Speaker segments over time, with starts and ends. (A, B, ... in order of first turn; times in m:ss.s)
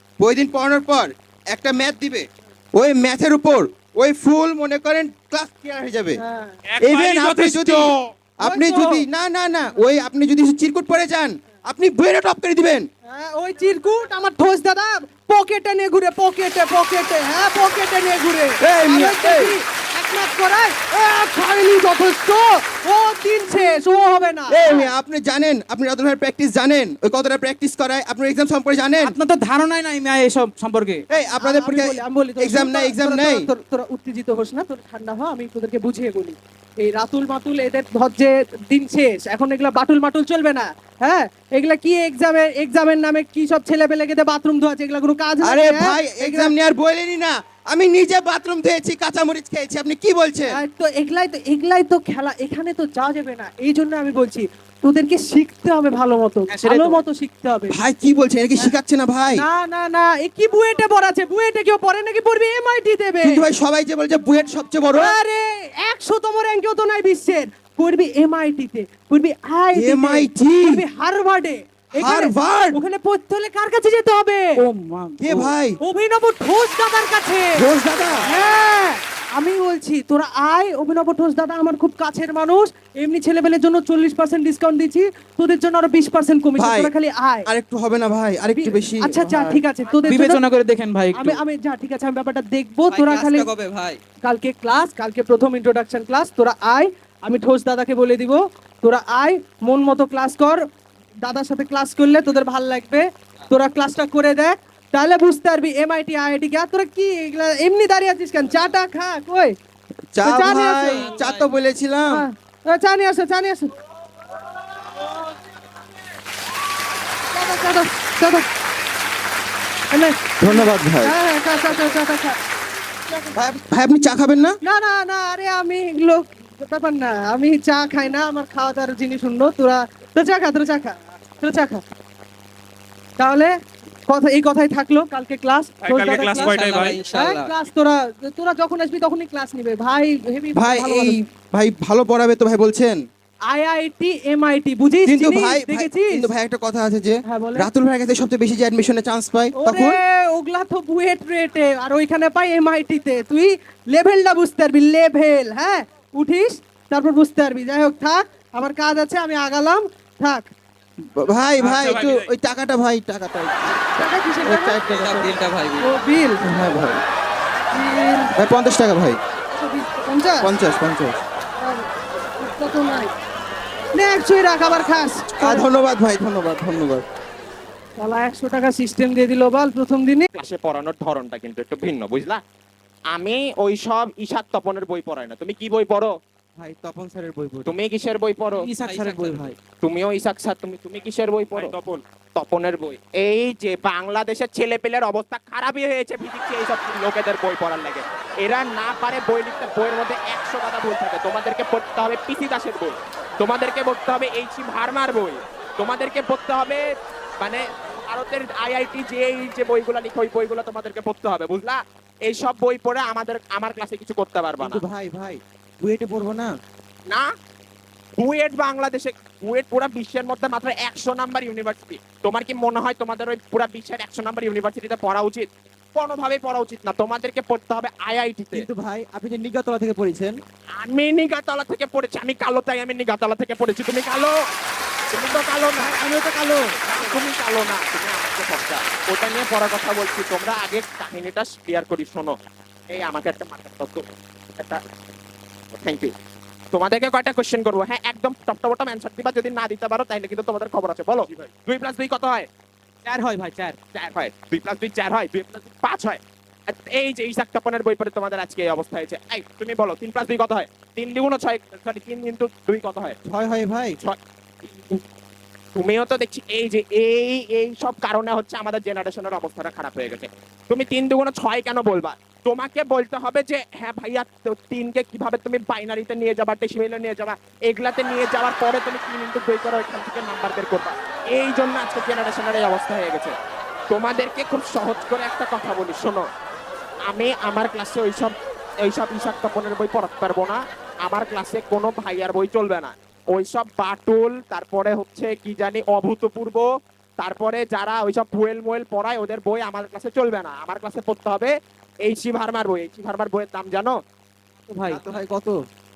0:00.2-0:06.2 A
0:06.2-0:06.6 B
0:06.7-0:08.1 C
0:06.8-0:12.9 A
0:08.4-0:09.0 B
0:13.1-0:24.9 B
0:18.6-0:19.5 A
0:24.5-0:29.1 A
0:29.0-0:31.0 D
0:31.1-0:33.4 A
0:31.1-0:46.5 B
0:45.4-0:50.6 A
0:50.5-0:57.7 B
0:56.5-0:57.0 D
0:57.7-0:59.4 A
0:59.3-1:03.4 B
1:03.2-1:05.2 A
1:05.0-1:14.6 B
1:09.8-1:10.8 A
1:12.0-1:12.8 A
1:14.6-1:15.5 D
1:15.2-1:15.8 A
1:15.8-1:17.6 B
1:17.6-1:18.3 A
1:18.2-1:27.5 B
1:26.6-1:26.9 A
1:27.4-1:29.6 A
1:28.6-1:30.4 B
1:30.0-1:31.4 D
1:31.1-1:33.5 B
1:32.9-1:34.0 E
1:34.2-1:40.6 B
1:41.2-1:49.5 B
1:50.1-1:52.2 A
1:50.2-1:51.1 B
1:50.9-1:51.4 E
1:52.1-1:53.7 B
1:57.3-1:58.4 B
1:59.9-2:02.4 B
2:00.4-2:01.1 A
2:03.3-2:04.6 A
2:04.6-2:11.8 B
2:13.2-2:13.5 B
2:14.1-2:21.2 B
2:15.8-2:17.0 C
2:16.4-2:17.5 E
2:20.6-2:23.0 A
2:23.5-2:26.2 B
2:25.0-2:30.0 A
2:27.3-2:27.7 B
2:29.6-2:40.5 B
2:41.2-2:43.8 A
2:41.6-2:42.3 C
2:44.0-2:44.8 B
2:44.4-2:45.3 A
2:44.8-2:45.9 E
2:45.8-2:46.4 B
2:46.4-2:47.0 A
2:47.7-2:48.3 B
2:48.4-2:49.2 A
2:49.5-2:50.5 B
2:50.4-2:51.2 A
2:51.6-2:51.8 B
2:52.4-2:53.1 B
2:54.0-2:55.6 B
2:55.3-2:57.0 A
2:58.0-3:00.3 B
3:00.4-3:02.4 F
3:03.1-3:06.1 F
3:06.6-3:07.6 A
3:07.6-3:08.7 F
3:08.5-3:09.6 D
3:08.8-3:09.4 E
3:09.8-3:11.8 F
3:11.5-3:12.0 C
3:12.4-3:26.8 F
3:27.4-3:34.8 F
3:34.6-3:36.5 A
3:38.2-3:48.7 F
3:48.5-3:50.4 A
3:50.8-3:54.3 F
3:55.1-3:55.9 F
3:55.7-3:57.3 A
3:56.8-4:02.4 F
4:02.9-4:04.0 F
4:05.7-4:06.1 F
4:06.7-4:12.5 F
4:13.0-4:13.8 D
4:13.9-4:23.2 F
4:23.3-4:24.0 A
4:24.0-4:25.0 F
4:25.8-4:43.3 F
4:43.9-4:46.3 F
4:47.0-4:56.6 F
4:57.2-5:01.5 F
5:02.0-5:03.9 F
5:04.7-5:05.0 D
5:04.9-5:05.5 A